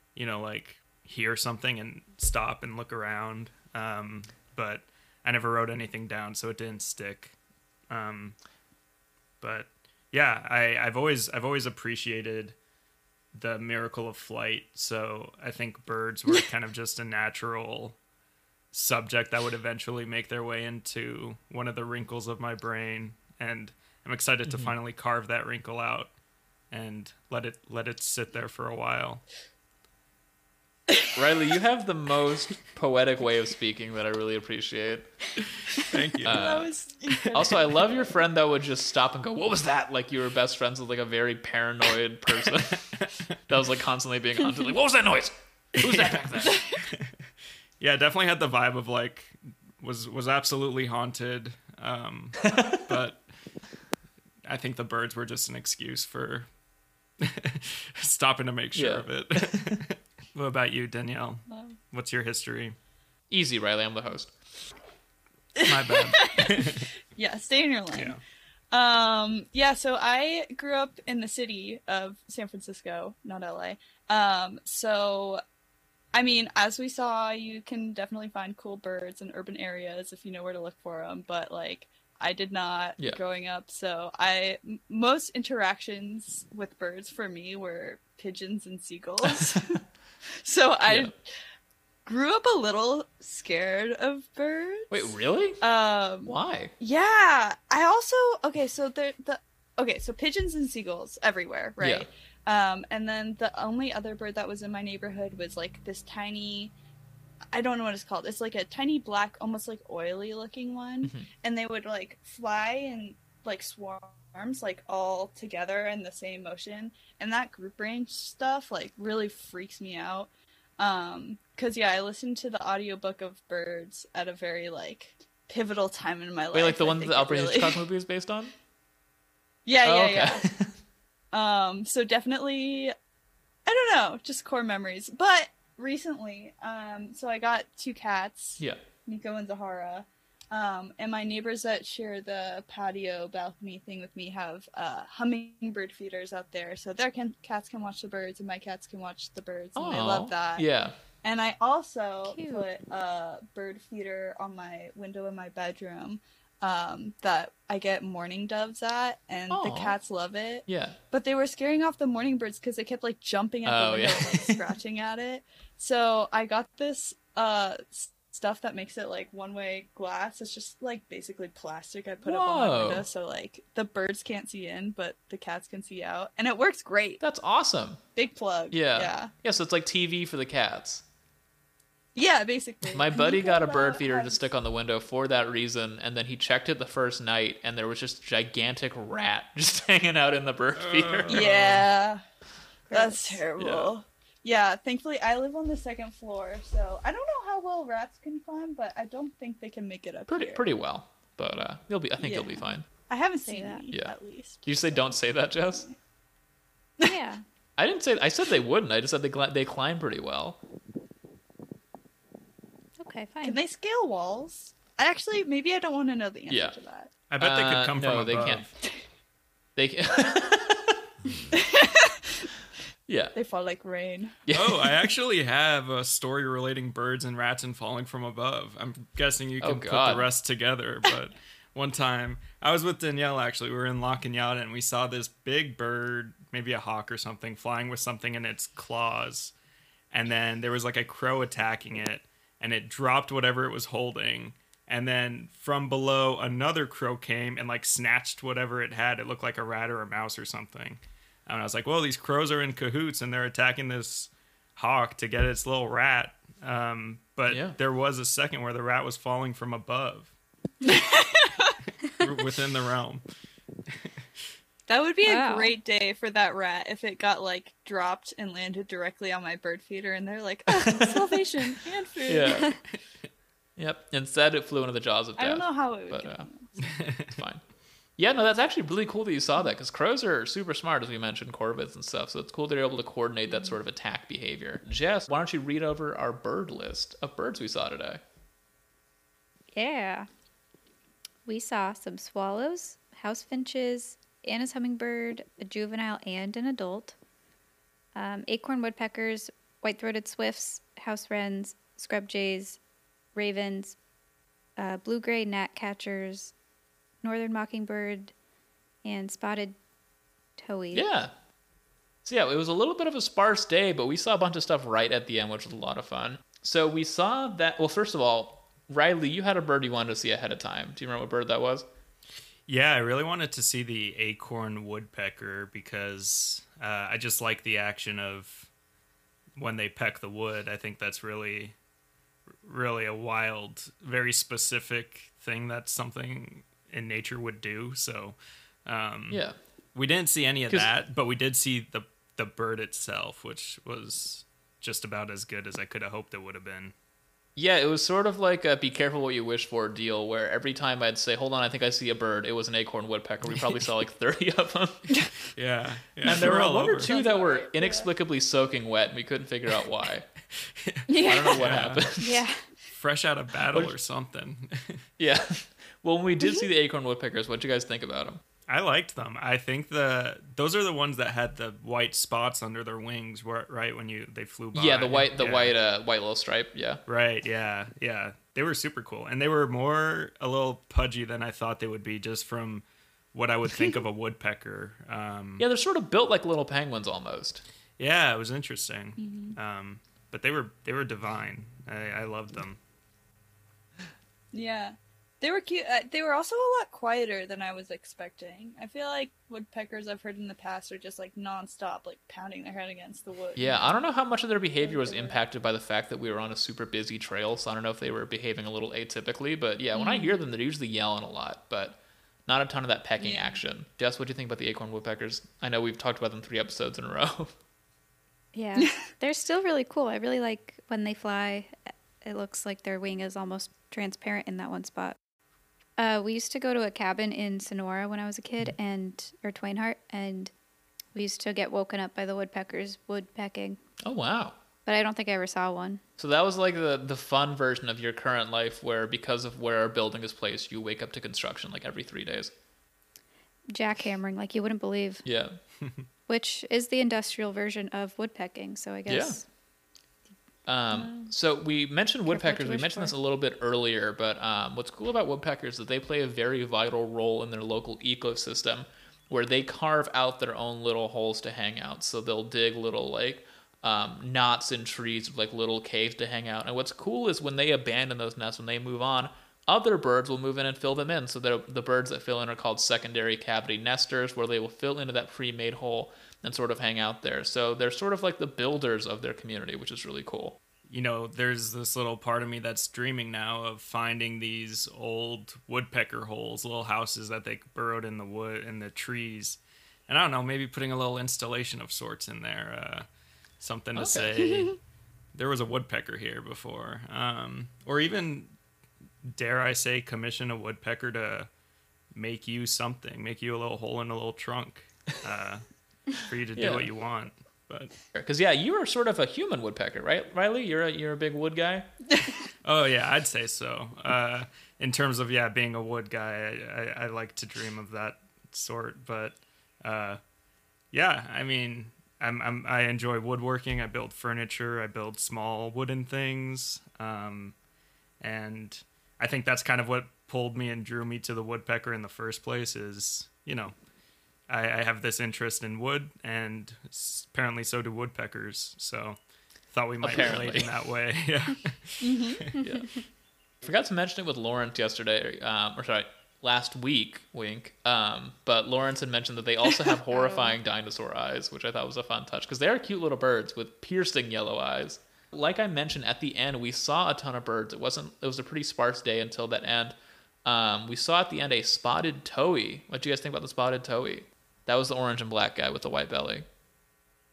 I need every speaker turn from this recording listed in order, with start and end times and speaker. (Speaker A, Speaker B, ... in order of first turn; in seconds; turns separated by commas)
Speaker A: 0.1-7.3, Speaker A: 7.9-8.3, Speaker A: 9.4-12.5, Speaker A: 13.3-17.9, Speaker A: 18.7-26.1, Speaker B: 24.4-24.7, Speaker A: 26.7-29.2, Speaker B: 31.1-35.1, Speaker A: 35.7-36.6, Speaker B: 36.2-36.7, Speaker C: 36.2-37.8, Speaker B: 37.3-42.9, Speaker B: 43.5-46.6, Speaker A: 45.8-47.1, Speaker C: 46.4-46.8, Speaker A: 47.8-53.2, Speaker B: 52.5-52.8, Speaker A: 54.4-56.5, Speaker A: 57.2-62.8, Speaker B: 58.7-59.8, Speaker C: 61.5-61.8, Speaker B: 63.3-64.3, Speaker C: 65.6-68.2, Speaker A: 65.6-66.9, Speaker A: 67.9-68.2, Speaker C: 68.7-75.4, Speaker C: 76.1-91.2, Speaker B: 89.3-89.6, Speaker B: 90.8-91.1, Speaker C: 92.0-106.7, Speaker B: 94.9-95.6, Speaker B: 96.2-96.7, Speaker B: 101.8-102.1, Speaker C: 107.5-127.8, Speaker B: 111.0-111.3, Speaker B: 126.5-128.5, Speaker C: 129.6-130.4, Speaker B: 129.8-130.7, Speaker C: 131.3-132.9, Speaker C: 133.7-150.7, Speaker B: 149.8-150.9, Speaker C: 151.2-177.2, Speaker D: 152.2-152.6, Speaker B: 159.5-159.9, Speaker B: 160.7-161.0, Speaker B: 163.7-164.6, Speaker B: 172.2-173.1, Speaker B: 177.2-178.0, Speaker C: 178.1-179.3, Speaker B: 178.7-181.0, Speaker C: 182.1-184.4, Speaker B: 182.9-191.8, Speaker A: 190.7-191.8, Speaker C: 191.3-192.2, Speaker D: 192.9-193.4, Speaker C: 192.9-200.6, Speaker B: 193.6-193.9, Speaker B: 200.3-202.8, Speaker C: 202.2-205.0, Speaker D: 203.4-203.9, Speaker B: 203.9-205.9, Speaker D: 207.0-207.4, Speaker B: 207.8-210.6, Speaker D: 213.0-213.6, Speaker C: 213.4-217.1, Speaker B: 216.5-216.7, Speaker A: 217.3-218.7, Speaker B: 217.4-218.7, Speaker B: 219.8-221.0, Speaker C: 221.5-222.5, Speaker B: 223.1-223.3, Speaker C: 223.3-224.4, Speaker B: 224.4-225.0, Speaker A: 224.5-239.5, Speaker B: 229.6-230.3, Speaker A: 240.1-260.3, Speaker B: 257.5-257.8, Speaker C: 260.8-261.7, Speaker A: 262.0-263.2, Speaker C: 264.9-272.7, Speaker D: 265.2-265.7, Speaker B: 270.7-271.4, Speaker B: 272.3-272.7, Speaker B: 273.8-276.5, Speaker C: 275.4-276.7, Speaker A: 276.8-277.4, Speaker B: 277.4-277.6, Speaker B: 278.2-288.2, Speaker D: 289.7-290.3, Speaker D: 291.4-297.1, Speaker D: 298.1-302.8, Speaker D: 303.3-304.0, Speaker D: 304.8-306.5, Speaker D: 307.2-308.3, Speaker D: 309.0-309.8, Speaker D: 310.6-311.1, Speaker B: 310.9-311.3, Speaker B: 312.2-321.9, Speaker A: 322.7-328.7, Speaker A: 329.6-331.7, Speaker A: 332.6-339.4, Speaker B: 339.3-339.6, Speaker A: 339.9-346.9, Speaker B: 347.6-355.1, Speaker A: 355.5-357.1, Speaker B: 356.2-360.2, Speaker C: 356.3-358.1, Speaker A: 360.8-362.1, Speaker C: 361.1-361.8, Speaker B: 361.2-362.4, Speaker D: 362.2-362.6, Speaker A: 362.9-365.0, Speaker B: 365.2-368.4, Speaker A: 368.7-375.7, Speaker B: 374.7-377.0, Speaker A: 377.1-385.6, Speaker B: 385.6-387.6, Speaker A: 388.0-392.8, Speaker C: 389.2-389.6, Speaker C: 394.5-403.9, Speaker B: 403.6-417.5, Speaker C: 404.8-405.4, Speaker C: 409.9-410.4, Speaker C: 413.2-413.6, Speaker D: 418.5-425.1, Speaker D: 426.0-430.5, Speaker D: 431.1-433.8, Speaker B: 434.0-434.6, Speaker D: 434.9-436.0, Speaker B: 436.2-442.5, Speaker D: 443.7-445.2, Speaker B: 445.2-445.6, Speaker D: 446.3-449.4, Speaker B: 449.1-449.4, Speaker B: 450.7-480.6, Speaker C: 451.0-451.2, Speaker D: 452.3-453.1, Speaker A: 480.9-493.1, Speaker A: 493.6-494.8, Speaker C: 494.0-494.8, Speaker A: 495.3-498.5, Speaker A: 499.2-501.5, Speaker A: 502.1-507.9, Speaker B: 506.6-506.9, Speaker B: 508.1-511.9, Speaker A: 512.6-520.2, Speaker A: 520.9-527.5, Speaker A: 528.2-533.7, Speaker A: 534.5-539.2, Speaker A: 539.7-542.5, Speaker B: 540.0-540.7, Speaker C: 542.0-542.5, Speaker B: 542.5-542.9, Speaker D: 542.5-543.0, Speaker B: 543.6-566.5, Speaker D: 550.1-550.5